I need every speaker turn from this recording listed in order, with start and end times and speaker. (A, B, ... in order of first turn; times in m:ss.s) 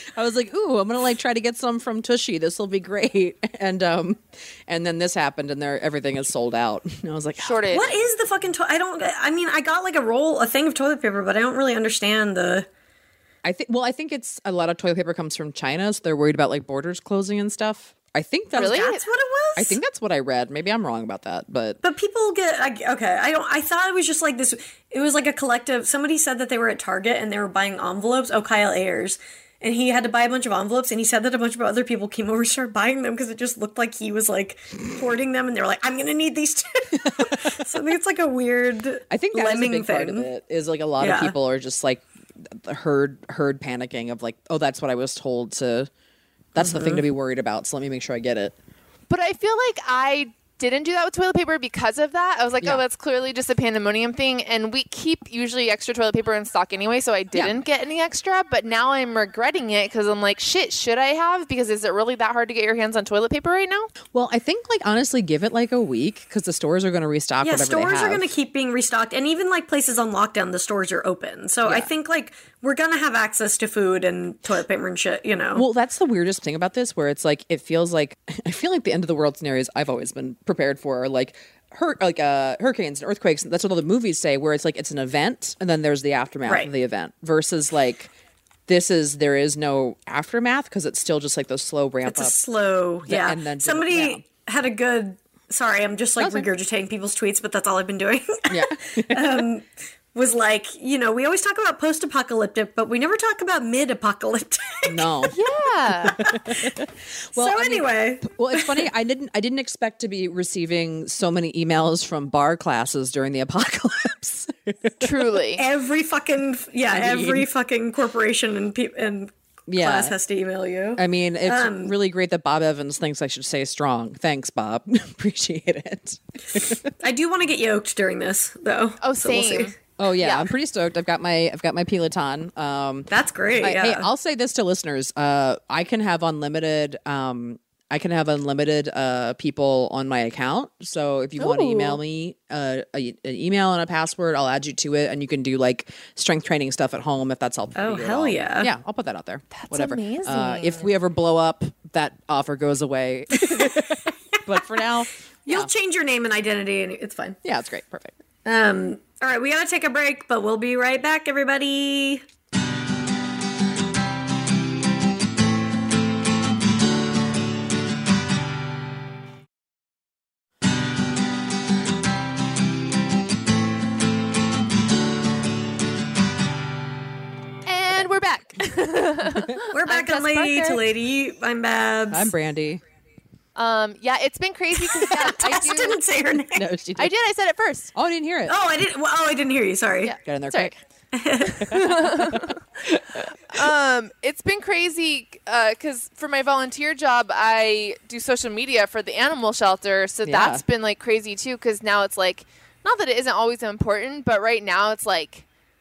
0:00.1-0:07.8 A
0:07.4-0:08.0 B
0:07.7-0:12.7 C
0:13.4-0:18.9 A
0:18.6-0:19.0 B
0:18.6-0:19.8 C
0:19.6-0:21.8 A
0:21.8-0:40.3 C
0:37.0-0:37.6 A
0:39.1-0:45.9 A
0:41.0-0:41.3 C
0:46.5-0:48.6 A
0:46.6-0:47.0 C
0:49.1-1:03.9 B
1:04.1-1:08.3 A
1:07.4-1:15.6 C
1:11.6-1:11.9 A
1:15.5-1:28.1 A
1:26.4-1:26.7 C
1:28.7-1:32.4 A
1:32.0-1:45.3 C
1:33.0-1:34.2 A
1:36.2-1:36.5 A
1:38.5-1:39.5 A
1:44.9-1:45.4 A
1:45.3-1:46.2 B
1:46.0-1:55.1 A
1:46.2-1:46.8 C
1:47.4-1:48.9 C
1:55.0-1:55.6 B
1:55.6-2:01.9 C
1:56.9-1:57.5 A
1:59.7-2:00.1 A
2:01.0-2:06.9 A
2:07.0-2:09.8 C
2:09.0-2:10.5 B
2:10.0-2:35.7 A
2:13.1-2:14.1 C
2:21.4-2:22.0 B
2:27.8-2:28.7 C
2:29.5-2:30.9 B
2:33.4-2:33.8 C
2:35.4-2:37.4 C
2:37.4-2:38.1 A
2:38.4-2:42.2 C
2:57.6-3:00.8 B
2:59.7-3:02.3 C
3:02.1-3:02.8 A
3:03.6-3:06.0 B
3:04.9-3:06.7 C
3:06.5-3:07.1 A
3:07.0-3:07.9 B
3:07.9-3:08.5 A
3:08.5-3:10.2 C
3:10.0-3:10.7 B
3:10.2-3:10.8 A
3:11.1-3:11.7 C
3:11.6-3:13.6 A
3:11.7-3:12.6 B
3:13.4-3:25.4 B
3:20.2-3:20.6 A